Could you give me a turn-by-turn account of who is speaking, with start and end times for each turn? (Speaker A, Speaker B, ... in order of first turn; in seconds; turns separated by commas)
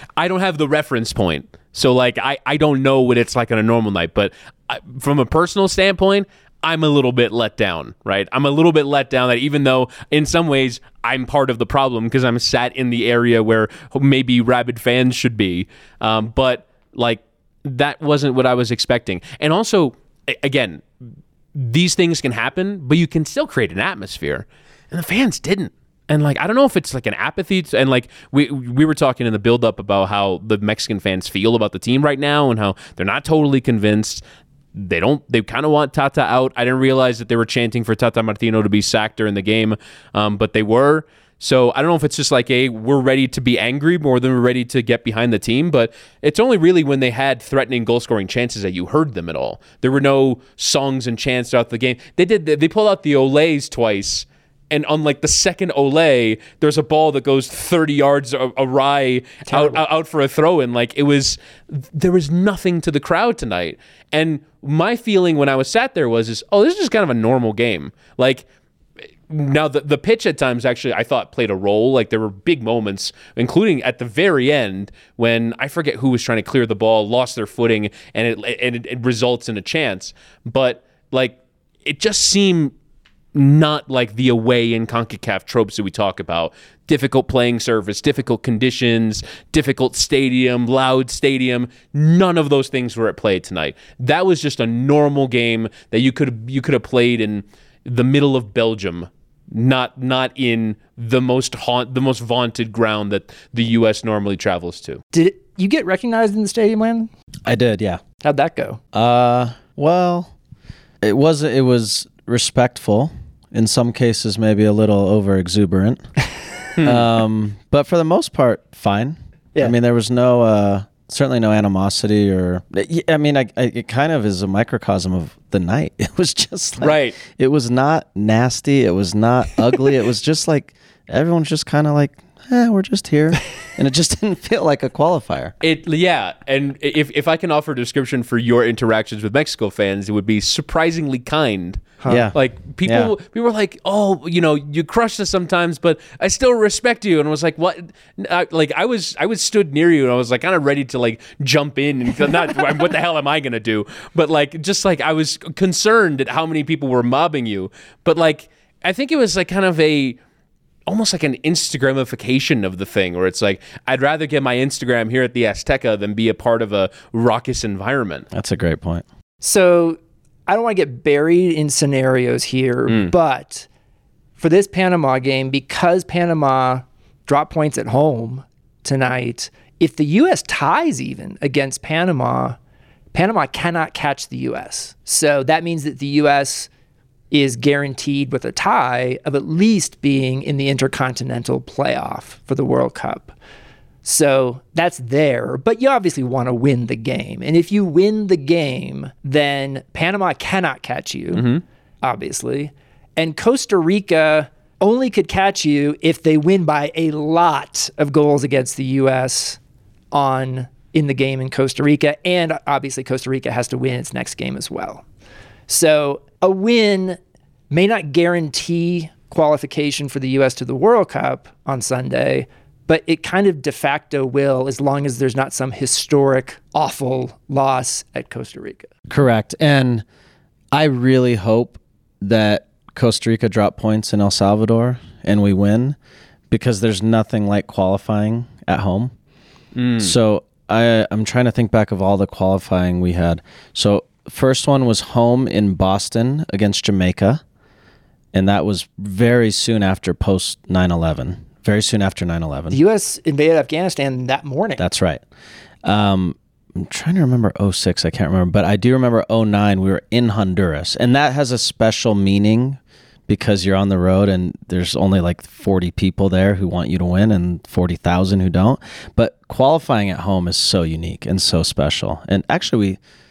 Speaker A: 0.2-20.8, Speaker A: 21.5-34.2, Speaker A: 34.7-68.4, Speaker B: 59.5-59.8, Speaker A: 69.3-82.7, Speaker A: 83.3-105.0, Speaker B: 105.1-107.1, Speaker C: 107.5-108.0, Speaker B: 108.2-108.8, Speaker C: 108.9-110.3, Speaker C: 111.0-116.0, Speaker A: 116.8-117.1, Speaker C: 116.8-135.5, Speaker A: 126.8-127.2, Speaker A: 135.6-160.2, Speaker B: 142.0-142.3, Speaker C: 142.1-143.1, Speaker A: 160.9-168.3, Speaker C: 168.3-169.0, Speaker B: 169.4-173.7, Speaker A: 172.9-173.1, Speaker B: 174.4-182.6, Speaker B: 183.1-186.7, Speaker B: 187.3-193.3, Speaker B: 194.0-201.5, Speaker A: 201.3-201.6, Speaker B: 202.0-209.6, Speaker B: 210.1-215.0, Speaker B: 215.7-217.2, Speaker B: 217.7-228.9, Speaker C: 229.1-230.0, Speaker C: 230.7-236.0, Speaker C: 236.5-239.1, Speaker A: 239.7-240.1, Speaker C: 240.0-247.4, Speaker C: 248.3-252.8, Speaker B: 252.7-254.8, Speaker C: 254.8-255.2, Speaker C: 255.8-273.0